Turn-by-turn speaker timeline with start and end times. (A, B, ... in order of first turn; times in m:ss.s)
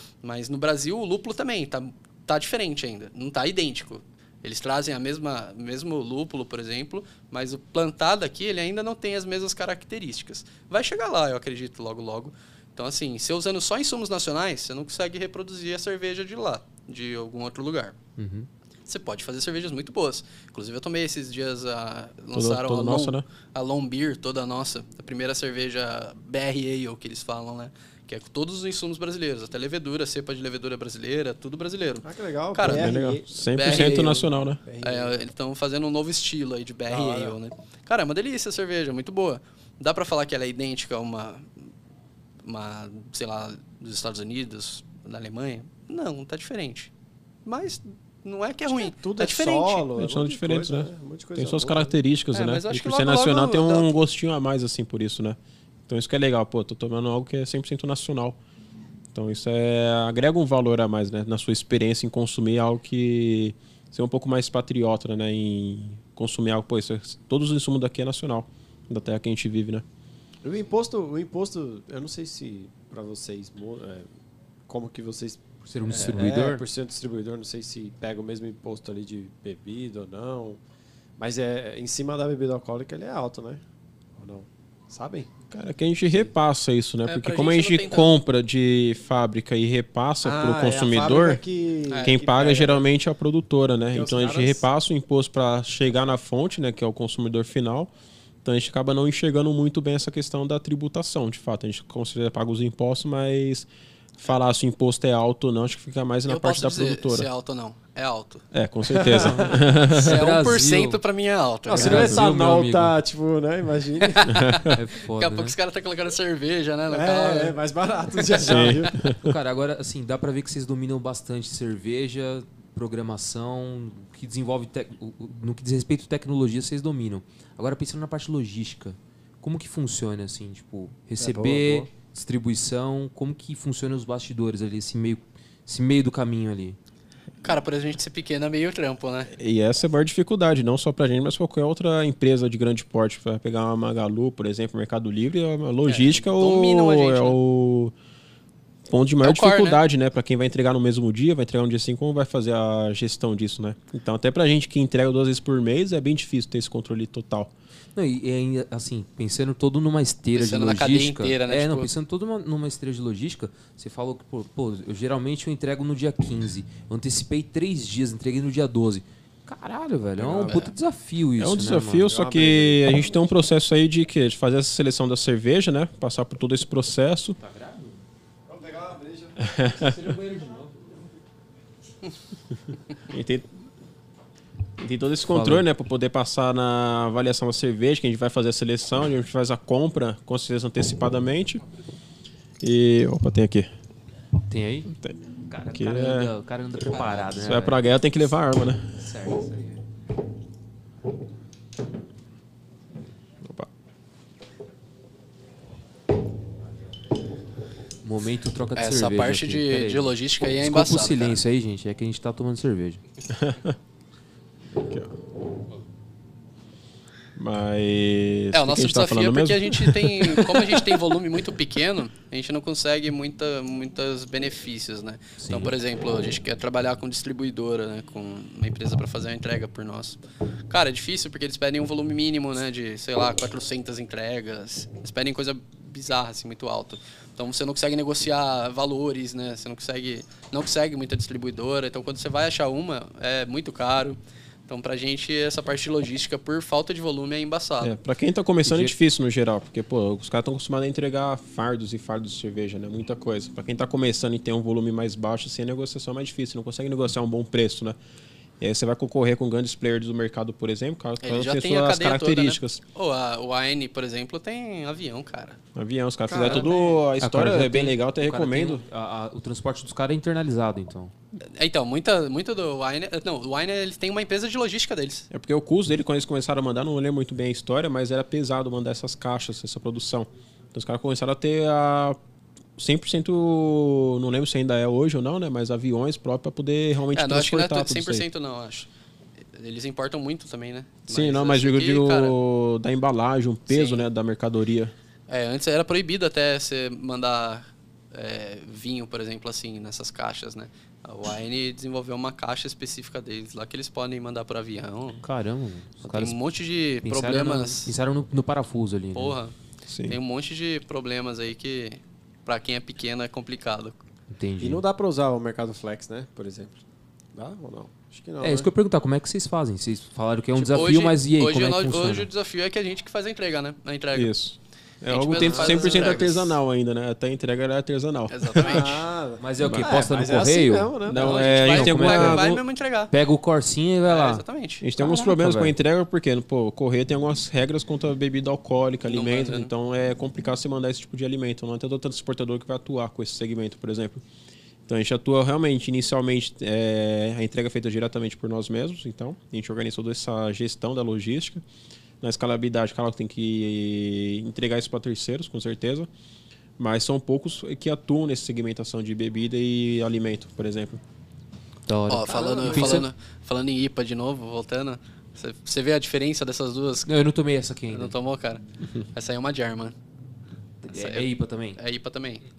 0:00.2-0:18.0 A
0:18.2-0:18.5 B
0:18.9-0:34.3 A
0:22.3-0:23.2 C
0:32.0-0:35.2 D
0:32.6-0:34.6 C
0:34.8-0:41.5 A
0:36.9-0:37.4 D
0:42.4-0:46.9 A
0:47.4-0:49.9 A
0:48.7-0:52.0 D
0:50.0-0:58.4 C
0:52.3-0:53.9 A
0:59.1-1:09.8 C
1:10.4-1:14.1 D
1:14.7-1:20.6 D
1:15.6-1:16.7 B
1:21.2-1:23.6 D
1:24.2-1:25.3 D
1:25.5-1:31.4 C
1:27.1-1:28.2 A
1:30.2-1:32.9 D
1:31.9-1:32.2 A
1:32.0-1:37.9 C
1:33.9-1:34.6 D
1:38.4-1:43.7 C
1:44.2-1:47.3 C
1:46.3-1:48.4 A
1:48.5-1:50.2 C
1:48.9-1:49.6 D
1:49.0-1:51.0 B
1:49.9-1:52.1 A
1:51.7-1:54.5 D
1:51.8-1:53.0 B
1:52.0-1:52.2 C
1:54.0-1:57.6 A
1:54.2-1:54.8 C
1:54.7-1:55.5 B
1:56.9-1:59.0 D
1:58.1-1:58.7 A
1:58.4-1:59.4 C
1:59.2-2:16.8 B
2:11.2-2:11.9 D
2:17.4-2:19.3 A
2:19.4-2:27.9 C
2:25.9-2:27.4 A
2:28.9-2:37.5 C
2:29.2-2:29.8 A
2:38.0-2:52.1 B
2:40.4-2:41.9 A
2:50.2-2:50.5 C
2:51.4-2:57.4 C
2:52.1-2:53.3 D
2:57.4-2:58.0 B
2:58.5-2:59.6 D
2:59.4-3:00.0 C
2:59.8-3:00.8 B
3:03.1-3:03.5 C
3:04.8-3:11.6 C
3:05.3-3:05.6 B
3:12.6-3:13.7 C
3:14.5-3:14.9 B
3:14.9-3:15.1 C
3:15.5-3:17.8 B
3:15.7-3:16.3 C
3:16.9-3:18.9 C
3:19.0-3:19.8 B
3:23.4-3:23.7 C
3:28.0-3:33.0 B
3:28.8-3:31.4 A
3:33.3-3:33.8 C
3:34.8-3:35.1 C
3:37.4-3:41.0 C
3:38.5-3:50.2 A
3:45.4-3:45.8 B
3:50.7-4:08.0 A
4:07.8-4:18.0 C
4:18.6-4:22.8 C
4:21.2-4:25.6 A
4:25.8-4:28.8 C
4:26.3-4:27.0 D
4:26.4-4:26.7 B
4:27.2-4:31.1 B
4:31.5-4:35.3 A
4:35.3-4:42.2 C
4:42.8-4:48.3 C
4:47.1-4:48.9 A
4:49.5-4:52.4 A
4:51.1-4:54.9 C
4:53.7-4:54.1 A
4:55.3-5:05.2 A
5:05.2-5:06.4 B
5:06.0-5:07.9 A
5:07.0-5:09.4 B
5:09.1-5:09.5 A
5:09.9-5:10.2 C
5:10.1-5:14.0 A
5:14.3-5:14.8 B
5:14.6-5:16.8 D
5:17.4-5:18.7 D
5:18.4-5:22.3 B
5:20.6-5:24.3 A
5:24.1-5:28.9 C
5:25.1-5:26.6 A
5:25.3-5:26.2 D
5:28.3-5:29.1 A
5:28.6-5:31.4 D
5:29.4-5:30.9 B
5:29.6-5:29.9 C
5:31.0-5:32.5 C
5:31.2-5:33.1 A
5:31.6-5:34.4 B
5:34.0-5:34.8 A
5:34.8-5:44.2 C
5:35.0-5:35.8 B
5:39.1-5:39.7 A
5:44.9-5:51.6 C
5:52.2-5:56.1 C
5:56.8-6:01.0 C
6:01.9-6:03.1 B
6:02.1-6:07.1 A
6:02.3-6:03.0 D
6:07.1-6:08.1 B
6:07.9-6:08.6 A
6:09.1-6:10.0 A
6:10.8-6:11.8 B
6:10.9-6:12.4 A